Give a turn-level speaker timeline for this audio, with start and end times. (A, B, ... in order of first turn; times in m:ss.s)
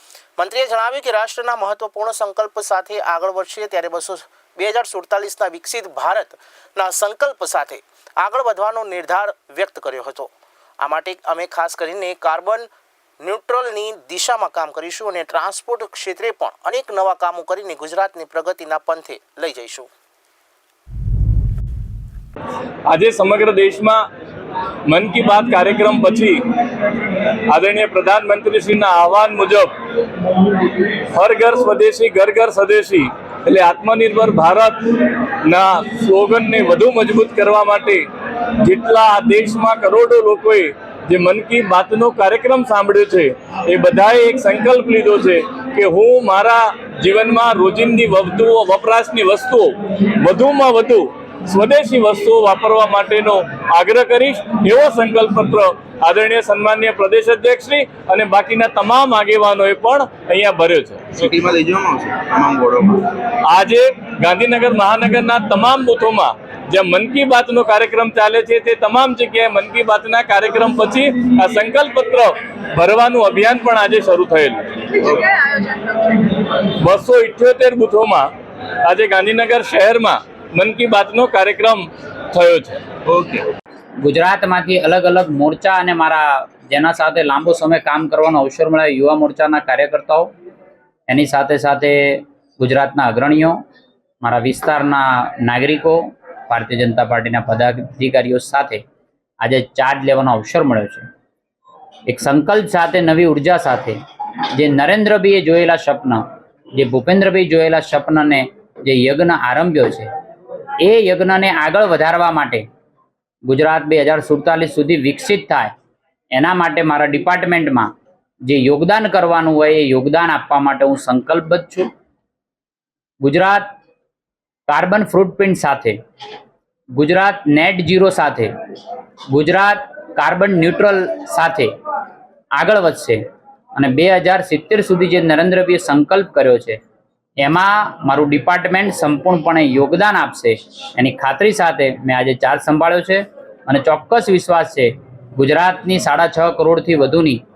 0:00.4-0:12.7 A
0:13.2-0:19.9 A
0:22.9-0:24.1 B
0:24.9-0:26.4 B
0:27.5-0:29.7 B
0:31.1-0:38.1 B
0:38.6-1:01.3 B
1:01.2-1:03.0 C
1:03.4-1:18.3 B
1:18.8-1:22.8 B
1:23.1-1:23.5 C
1:24.0-1:30.3 D
1:31.1-1:33.6 D
1:34.2-1:38.8 D
1:39.4-1:41.1 D
1:42.1-1:44.0 D
1:44.6-1:46.2 D
1:46.8-1:50.1 D
1:50.8-1:52.6 D
1:53.5-1:55.7 D
1:56.4-1:57.9 D
1:58.5-2:01.9 D
2:03.2-2:03.7 D
2:04.7-2:06.0 D
2:07.0-2:08.5 D
2:09.3-2:11.7 D
2:12.6-2:13.2 D
2:13.8-2:16.8 D
2:17.4-2:27.4 D